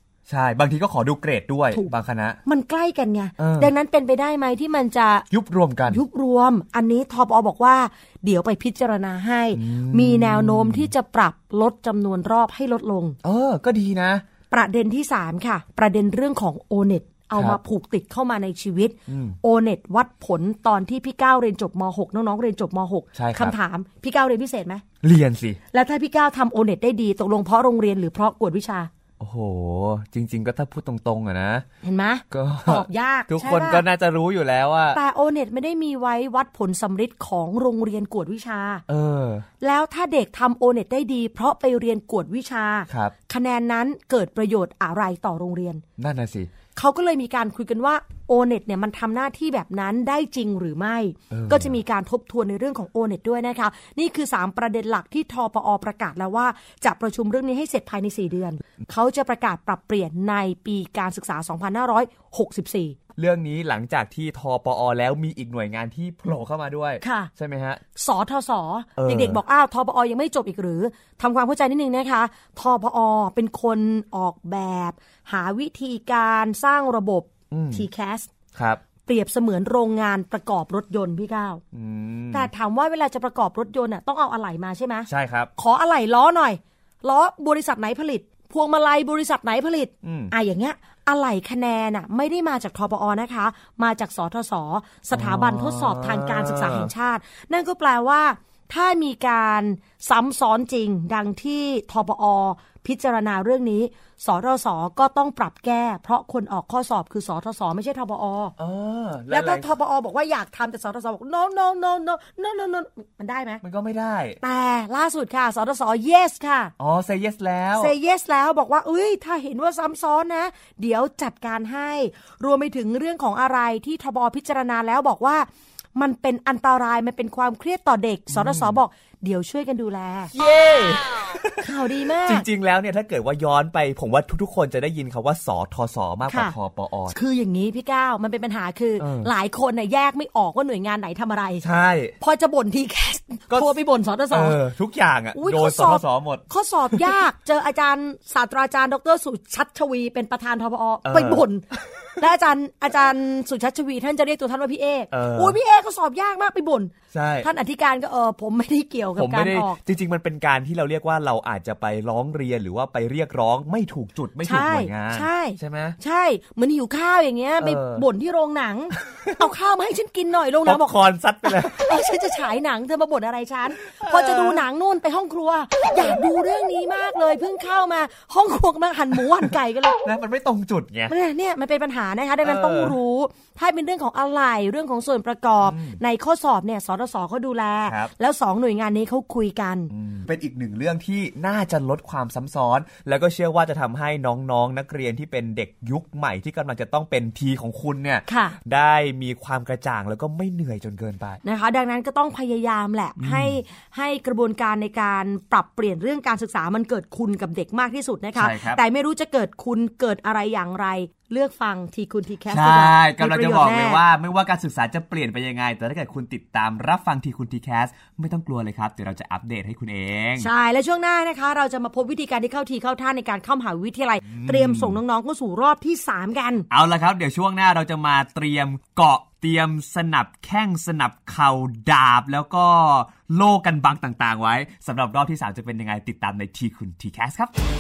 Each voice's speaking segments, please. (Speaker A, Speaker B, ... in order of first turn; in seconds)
Speaker A: 0.3-2.4, 3.4-3.7, 5.3-6.0, 9.5-10.9, 13.2-14.2, 19.1-19.4, 23.1-23.6, 25.0-25.6, 29.2-31.6, 32.3-35.0, 38.9-39.5, 42.9-43.1, 46.0-46.5, 51.3-51.8, 63.2-67.8, 69.0-69.4, 77.5-77.8, 78.5-78.8, 81.7-82.5, 85.1-85.5, 90.0-90.3, 95.1-96.9, 108.6-109.7, 113.6-114.4, 116.8-117.9, 128.3-128.8, 130.3-131.7, 132.2-137.2, 139.0-139.3, 141.6-142.2, 144.3-147.2, 151.1-151.4, 155.1-155.6, 157.1-157.5, 159.2-166.0, 167.6-168.1, 169.0-169.4, 170.6-171.8, 173.9-174.6, 180.0-181.1, 182.4-183.0, 185.6-186.0, 187.9-188.1, 189.9-201.4, 203.2-203.6, 208.4-208.8, 212.5-220.5, 224.3-225.0, 226.7-237.5
Speaker B: 2.5-5.3, 5.9-13.2, 14.5-24.8, 25.7-28.9, 31.8-33.8, 34.9-38.8, 39.6-45.8, 46.8-63.0, 67.0-67.3, 68.0-78.3, 79.0-81.6, 82.3-108.5, 109.3-113.6, 114.4-116.7, 117.8-130.3, 131.6-132.5, 136.3-136.5, 137.1-141.7, 142.2-144.6, 145.3-151.7, 152.2-159.8, 164.4-180.0, 181.1-189.9, 198.3-198.6, 201.4-214.0, 220.4-226.7